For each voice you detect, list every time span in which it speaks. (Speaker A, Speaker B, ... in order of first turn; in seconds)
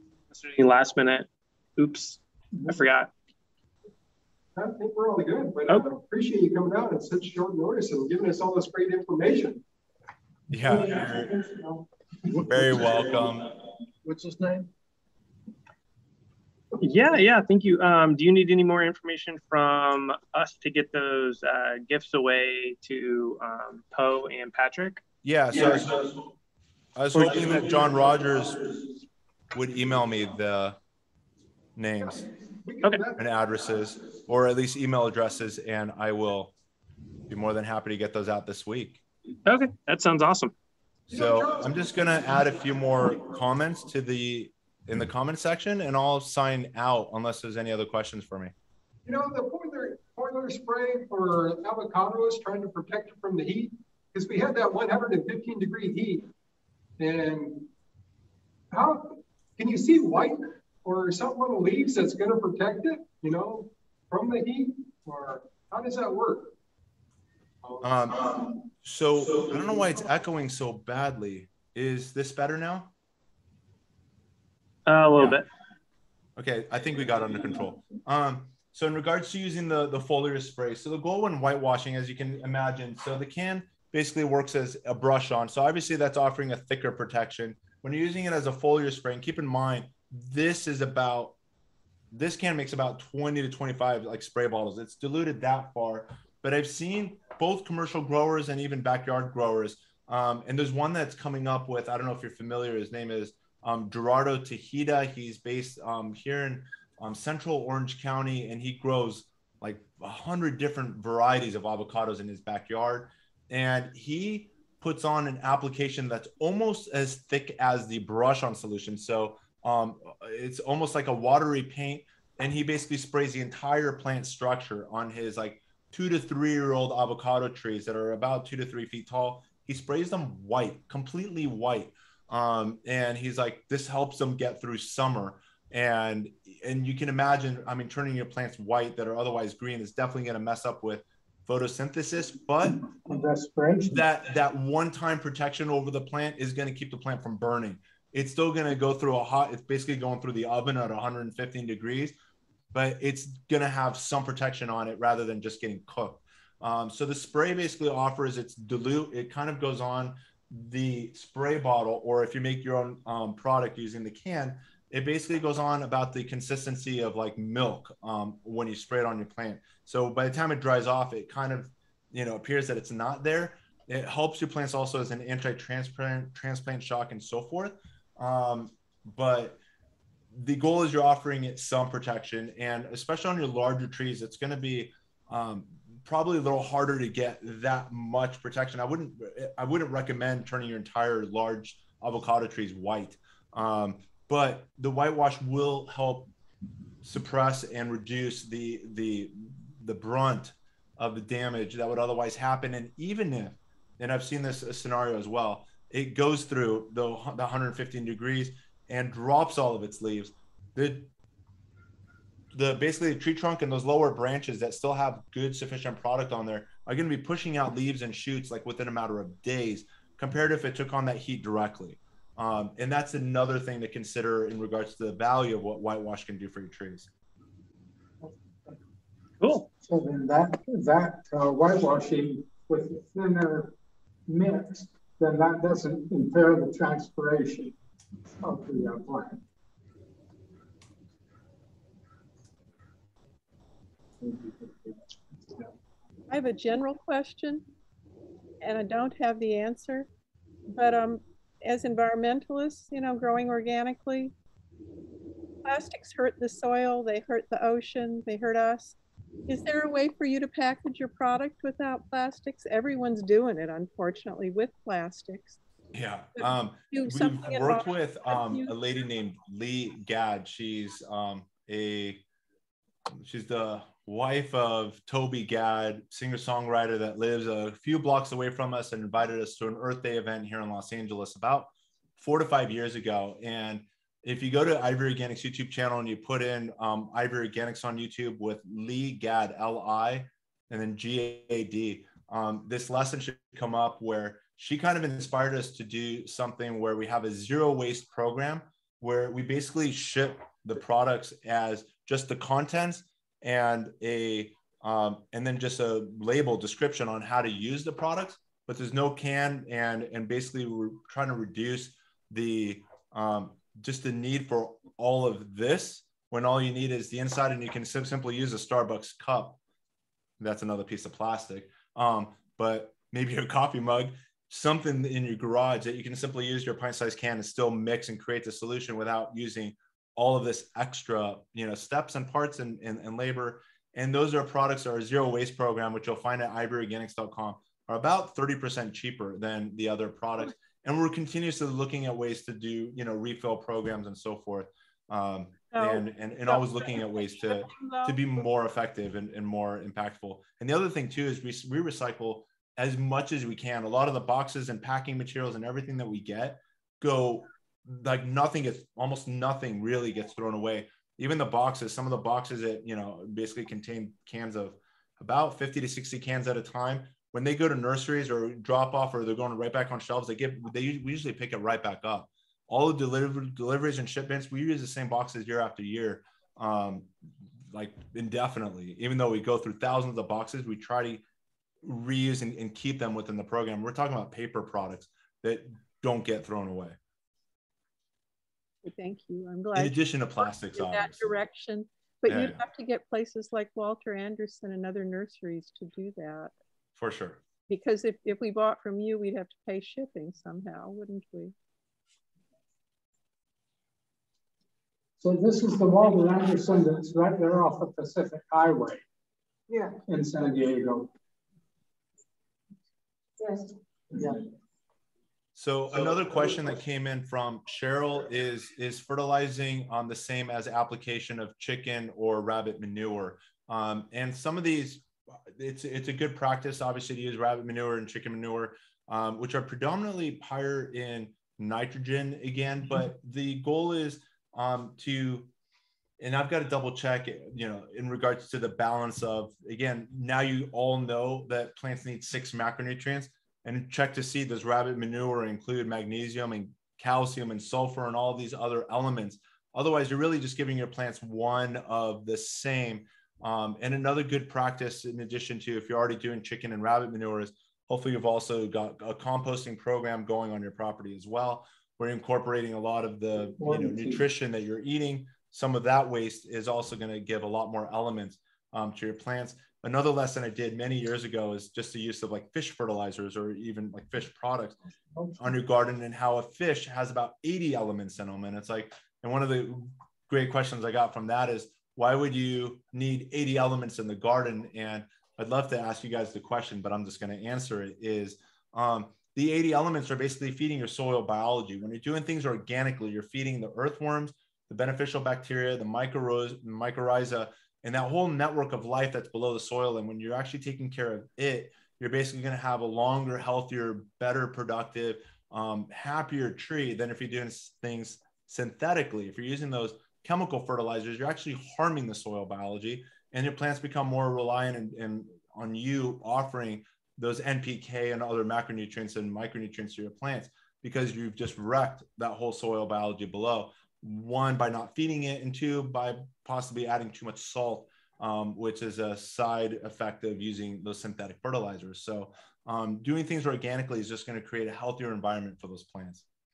Speaker A: 0.3-3.1, 16.8-25.0, 27.1-27.7, 39.5-40.5, 74.9-75.5, 229.4-229.7
Speaker B: 4.5-9.6, 32.0-33.2, 41.1-41.9, 49.1-56.3, 57.0-57.7, 58.7-66.5
Speaker C: 10.5-11.4, 12.4-13.6, 25.2-26.2, 27.0-28.8, 29.5-30.8, 31.8-32.3, 33.2-36.5, 37.3-39.0, 41.1-48.5, 67.8-72.9, 75.2-75.4, 76.4-91.4, 92.1-142.8, 143.8-152.1, 152.7-179.6, 180.3-196.3, 197.0-211.1, 212.5-227.1, 265.9-272.2, 273.2-319.6, 320.4-377.1, 377.7-381.2, 381.8-387.0, 389.8-391.4, 392.3-392.6, 397.0-397.4, 415.6-435.5, 436.2-474.8, 475.4-536.2
Speaker D: 10.7-11.8, 12.4-12.8, 14.1-14.7, 142.9-144.1, 229.8-233.8, 234.3-237.8, 238.4-239.4, 244.2-245.7, 405.2-409.1, 409.7-411.1, 413.4-414.4, 463.6-464.2
Speaker E: 246.3-247.7, 248.6-250.1, 250.7-254.3, 255.7-259.0, 259.5-265.6, 266.4-268.7, 345.8-348.2, 388.8-396.5, 397.7-401.5